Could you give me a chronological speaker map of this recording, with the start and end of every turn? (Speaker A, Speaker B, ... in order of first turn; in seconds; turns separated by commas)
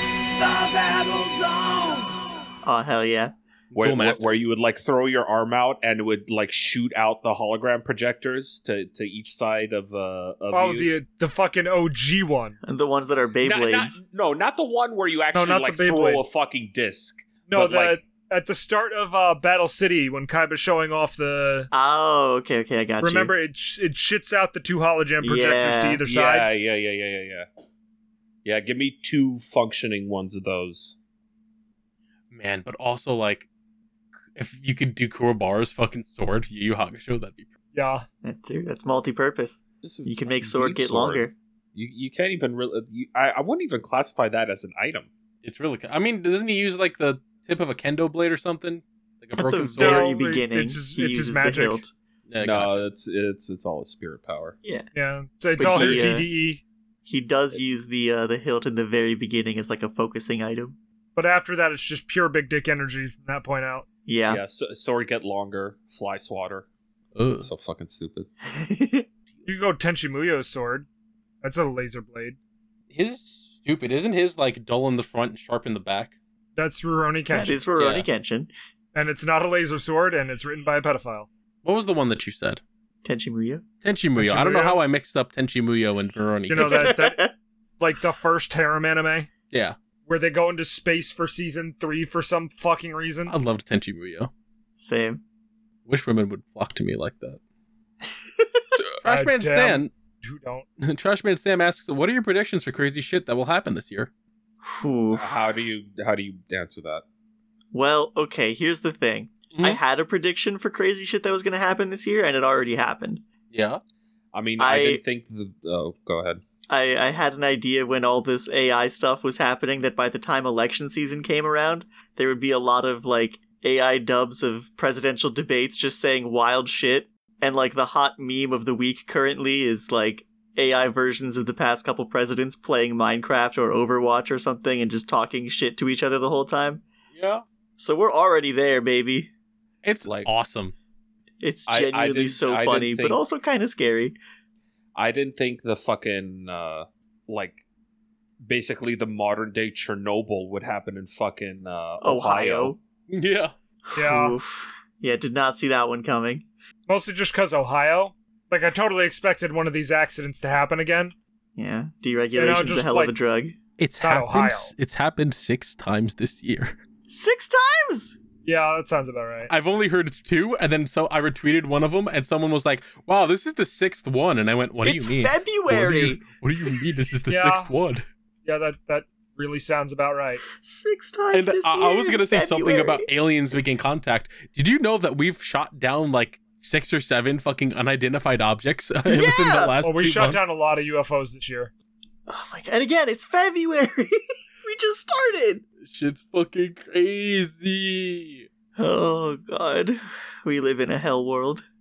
Speaker A: 0.4-2.1, Speaker B: 2.6-3.3, Speaker C: 3.7-4.5, Speaker A: 3.7-10.9, Speaker D: 10.5-12.6, Speaker B: 12.6-14.0, Speaker A: 13.4-18.0, Speaker D: 15.3-16.2, Speaker D: 17.5-21.7, Speaker B: 21.7-23.3, Speaker D: 23.0-26.5, Speaker B: 25.2-26.0, Speaker A: 26.1-27.5, Speaker A: 28.4-31.0, Speaker C: 32.3-33.5, Speaker C: 34.3-37.5, Speaker D: 37.7-38.0, Speaker B: 38.2-41.3, Speaker A: 39.8-45.1, Speaker C: 45.4-50.1, Speaker B: 49.4-51.9, Speaker D: 49.8-51.8, Speaker C: 52.3-52.8, Speaker A: 52.4-54.5, Speaker D: 54.9-56.6, Speaker B: 55.6-56.3, Speaker A: 55.6-56.0, Speaker B: 57.0-60.8, Speaker D: 61.1-63.8, Speaker B: 64.1-64.4, Speaker A: 64.3-66.7, Speaker C: 67.1-67.5, Speaker A: 67.3-68.3, Speaker B: 68.4-69.0, Speaker D: 69.5-70.9, Speaker D: 71.4-72.4, Speaker C: 72.9-76.1, Speaker D: 76.5-77.6, Speaker B: 77.3-78.5, Speaker C: 77.8-78.1, Speaker D: 78.9-81.3, Speaker C: 81.6-82.6, Speaker B: 83.0-83.6, Speaker C: 83.8-86.9, Speaker D: 84.2-84.8, Speaker D: 86.5-87.2, Speaker B: 86.5-87.3, Speaker D: 87.8-89.3, Speaker C: 89.5-89.8, Speaker D: 90.0-93.3, Speaker C: 93.3-94.3, Speaker B: 94.8-95.2, Speaker C: 95.9-97.4, Speaker B: 98.4-98.6, Speaker C: 98.8-99.9, Speaker D: 99.0-100.7, Speaker C: 100.8-104.1, Speaker B: 104.6-105.5, Speaker A: 105.1-107.0, Speaker B: 107.7-113.2, Speaker C: 109.5-109.8, Speaker C: 113.5-113.8, Speaker A: 114.3-116.4, Speaker B: 114.6-115.0, Speaker B: 116.7-136.8, Speaker C: 137.1-137.4, Speaker B: 137.8-139.3, Speaker C: 139.8-140.7, Speaker A: 140.0-140.3, Speaker B: 141.4-144.2, Speaker A: 141.7-143.2, Speaker A: 144.9-147.6, Speaker A: 148.4-152.7, Speaker B: 152.0-152.8, Speaker C: 153.1-153.5, Speaker B: 153.9-156.4, Speaker D: 153.9-154.4, Speaker D: 156.9-161.1, Speaker B: 161.6-163.6, Speaker D: 162.3-163.1, Speaker C: 163.8-166.8, Speaker D: 164.0-164.7, Speaker B: 167.1-168.2, Speaker D: 168.4-169.5, Speaker C: 169.5-178.0, Speaker B: 174.8-176.2, Speaker D: 177.3-177.7, Speaker D: 178.4-180.4, Speaker B: 180.6-183.1, Speaker C: 181.3-190.4, Speaker B: 189.1-189.7, Speaker D: 189.8-191.7, Speaker B: 192.3-195.6, Speaker C: 195.8-198.5, Speaker B: 198.8-201.6